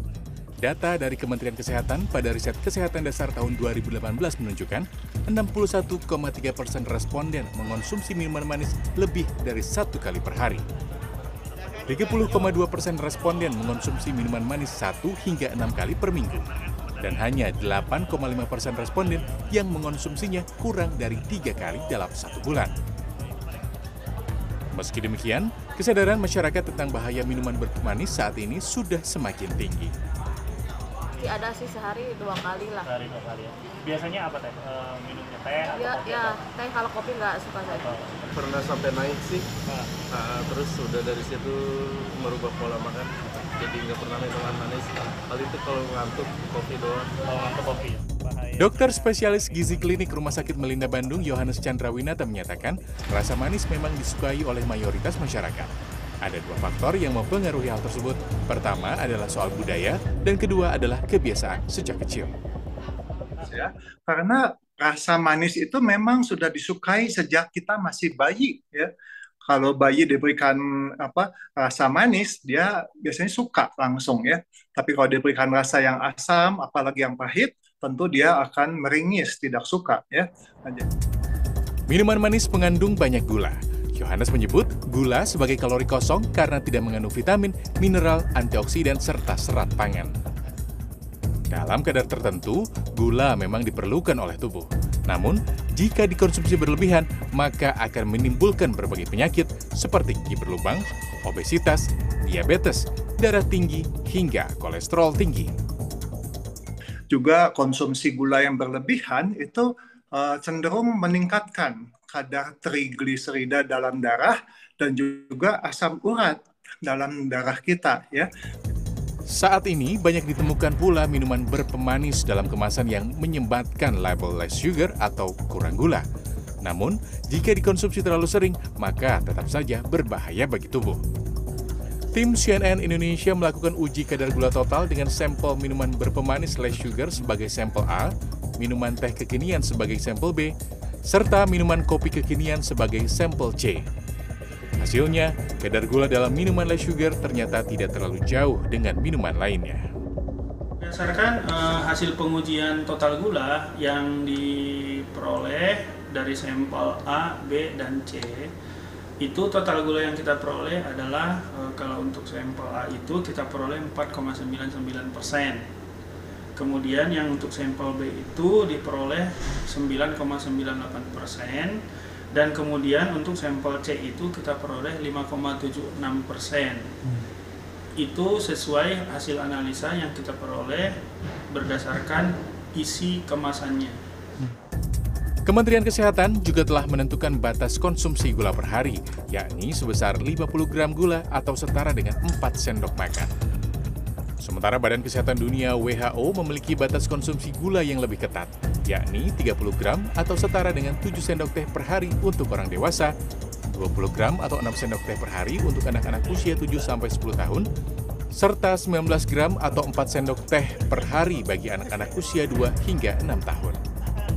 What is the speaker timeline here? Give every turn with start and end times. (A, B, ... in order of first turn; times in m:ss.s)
0:00.6-0:10.6 A
0:11.9-0:22.7 A
0:24.7-0:29.9 A
0:31.2-0:32.9 B
0:33.0-0:36.4 C
0:35.6-0:38.1 B
0:37.8-0:38.2 C
0:38.3-0:39.5 D
0:40.1-0:47.2 D
0:47.2-0:48.7 C
0:48.6-1:02.3 A
1:03.4-1:08.9 E
1:09.4-1:20.8 E
1:21.9-1:30.1 A
1:31.5-1:45.5 A
1:47.1-1:58.3 E
1:59.3-2:06.0 A
2:06.6-2:11.0 A
2:12.1-2:20.5 A
2:21.1-2:23.8 A
2:24.8-2:29.9 A
2:30.8-2:38.5 F
2:39.2-2:45.6 F
2:46.6-2:51.8 F
2:52.3-2:56.9 F
2:58.0-3:00.9 F
3:01.5-3:04.0 F
3:05.4-3:13.3 A
3:14.4-3:23.1 A
3:23.7-3:27.6 A
3:28.3-3:33.8 A